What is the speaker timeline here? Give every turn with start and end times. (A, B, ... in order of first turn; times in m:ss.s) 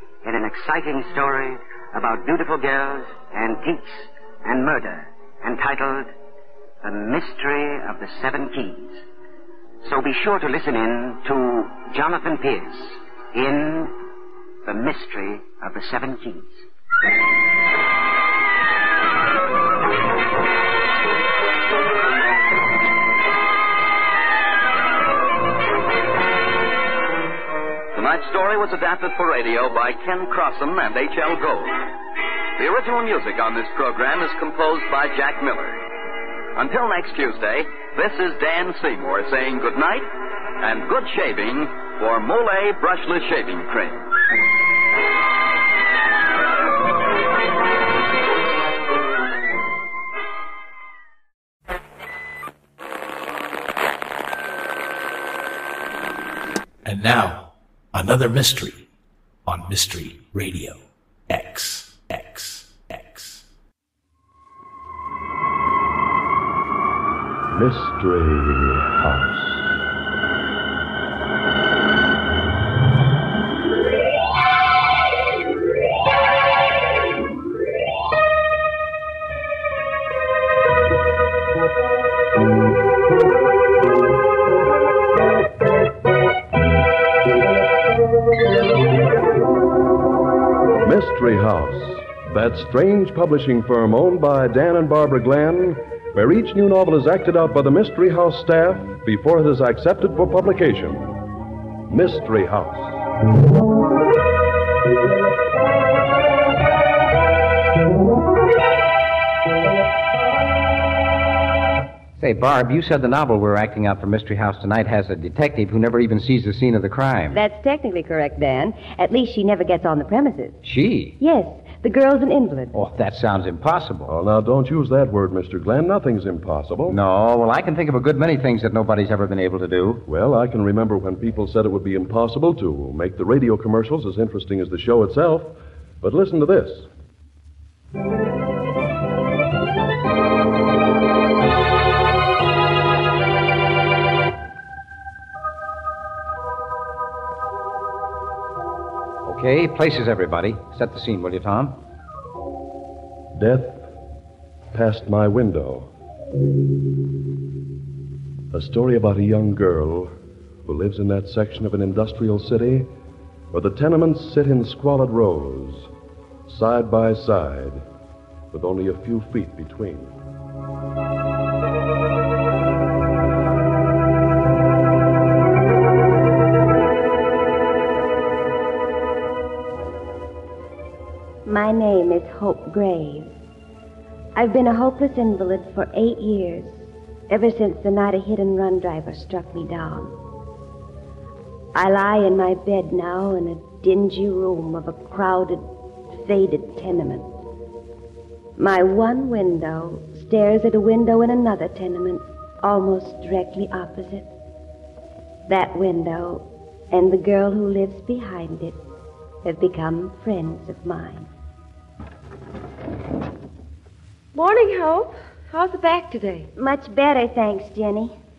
0:00.2-0:06.1 A
0:06.8-0:09.0 A
0:09.8-0:13.9 A
0:14.6-0:16.6 A
0:27.9-0:31.8 B
0:32.6-0:35.8 B
0:36.6-0:40.1 B
0:40.6-0:44.1 B
0:56.8-0:58.9 C
0:59.4-1:03.4 C
1:07.5-1:09.8 D
1:30.8-1:41.1 D
1:41.9-1:43.0 D
1:52.2-1:57.4 E
1:57.3-2:00.6 F
2:00.6-2:01.1 E
2:01.2-2:02.8 F
2:02.7-2:04.1 E
2:04.1-2:07.0 D
2:06.9-2:10.0 E
2:10.1-2:16.9 D
2:29.2-2:31.8 E
2:33.4-2:33.9 D
2:34.7-2:35.9 D
2:38.5-2:40.1 D
2:40.6-2:42.9 D
2:43.5-2:45.9 D
2:46.5-2:47.8 D
2:48.5-2:50.1 D
3:01.4-3:03.3 F
3:04.4-3:10.2 F
3:11.8-3:17.4 F
3:18.6-3:24.3 F
3:25.5-3:28.8 F
3:29.4-3:31.3 F
3:34.3-3:36.5 G
3:36.6-3:38.1 F